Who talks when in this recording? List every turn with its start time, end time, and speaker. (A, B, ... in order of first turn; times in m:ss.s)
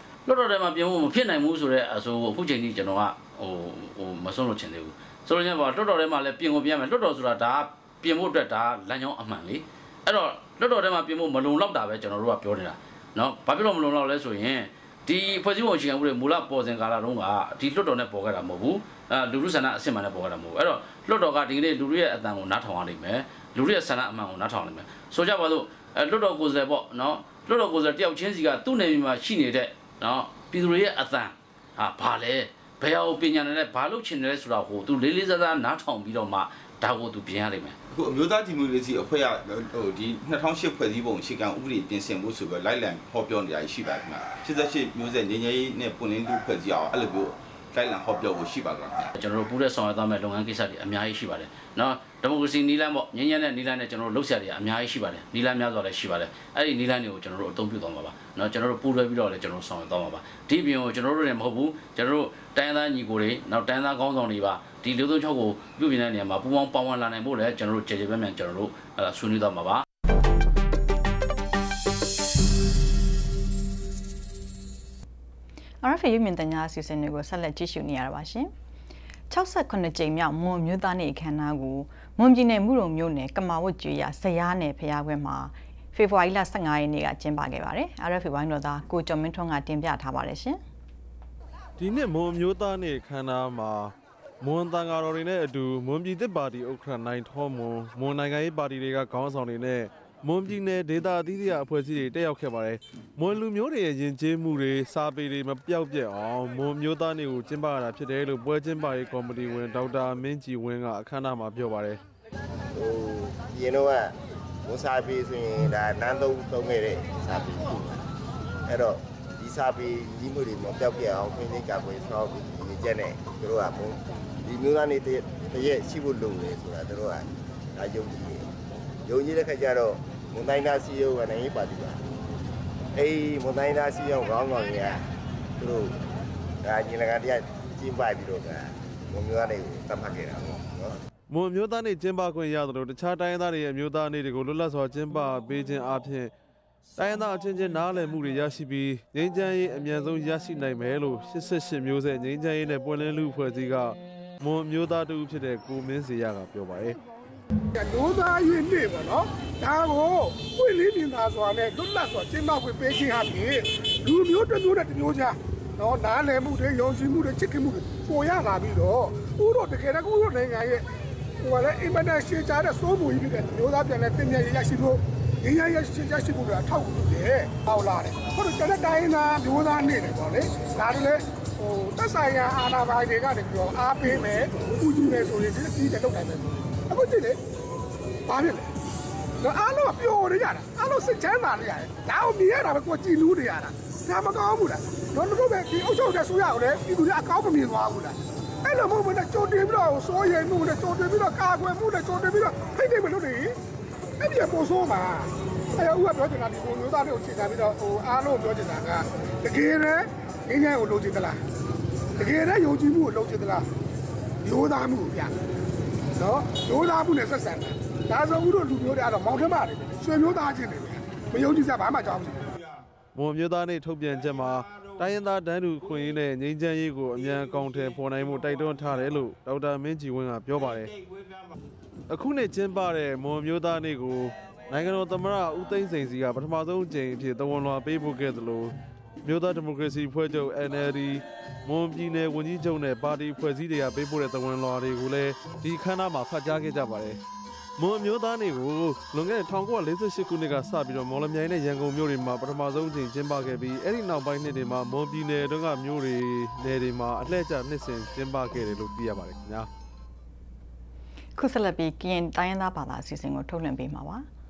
0:00.3-0:37.8 A
0:37.9-0:49.2 B
0:49.2-1:09.8 A
1:15.8-1:18.5 C
1:19.3-1:30.6 C
1:31.8-1:52.0 D
1:52.7-1:54.1 E
1:54.6-1:58.0 E
1:58.7-2:08.5 E
2:09.1-2:12.0 E
2:12.9-2:15.0 E
2:15.6-2:16.0 E
2:16.6-2:21.0 E
2:21.3-2:26.3 D
2:27.0-2:37.0 D
2:37.8-2:50.8 F
2:51.4-3:07.4 F
3:08.3-3:08.7 F
3:09.4-3:23.6 F
3:24.2-3:31.4 F
3:32.2-3:33.6 F
3:34.4-3:35.4 F
3:36.2-3:42.4 F
3:43.2-3:50.9 D
3:52.1-4:07.2 D
4:07.8-4:19.7 D
4:21.4-4:24.3 C